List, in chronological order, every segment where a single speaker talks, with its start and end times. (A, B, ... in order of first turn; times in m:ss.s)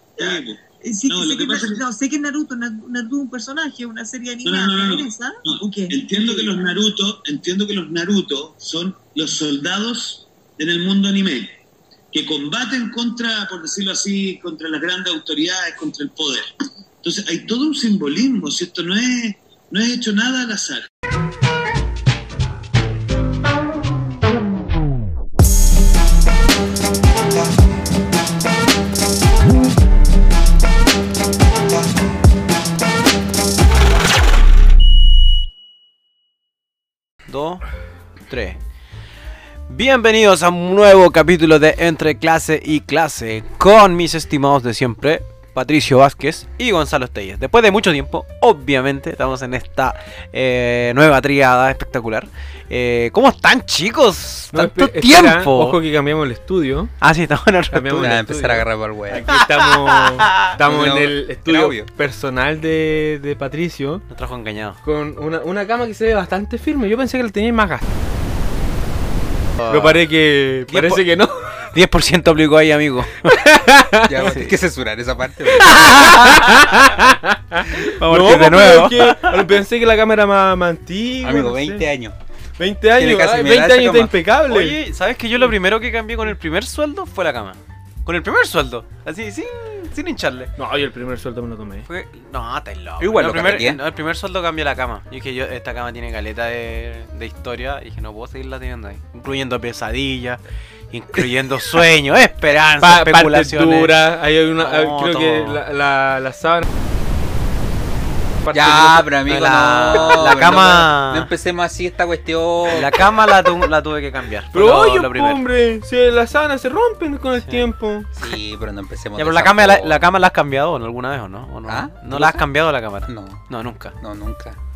0:00.2-0:06.6 A
0:00.2-0:01.8 B
0:04.4-0:11.5 B
0:12.1-0:16.4 B
0:17.0-0:20.9 B
0:37.3-0:37.6 C
0:38.3-0:38.6 C
0:39.7-0:55.8 C
0:54.5-0:56.9 D
0:57.0-0:58.2 C
0:57.7-1:04.0 D
0:58.0-0:59.3 E
0:59.3-1:00.6 C
1:00.6-1:01.9 E
1:04.1-1:04.8 C
1:04.8-1:07.9 D
1:09.6-1:10.0 C
1:09.7-1:11.6 D
1:10.7-1:11.0 C
1:11.6-1:13.4 C
1:13.3-1:14.4 D
1:14.0-1:16.3 E
1:14.2-1:14.6 C
1:15.5-1:21.9 D
1:15.6-1:17.0 C
1:17.7-1:19.6 C
1:21.2-1:22.1 E
1:22.6-1:24.8 D
1:23.0-1:24.1 E
1:24.5-1:30.5 C
1:30.6-1:31.9 D
1:31.8-1:40.4 C
1:33.0-1:33.8 E
1:40.9-1:43.9 C
1:42.8-1:46.7 D
1:44.6-1:45.6 C
1:48.4-1:49.1 D
1:48.5-1:53.0 E
1:49.3-1:51.3 C
1:52.7-1:55.4 C
1:54.5-1:58.1 D
1:58.2-2:00.0 E
1:59.2-2:03.9 C
2:01.7-2:02.4 E
2:03.1-2:03.4 E
2:04.0-2:04.6 E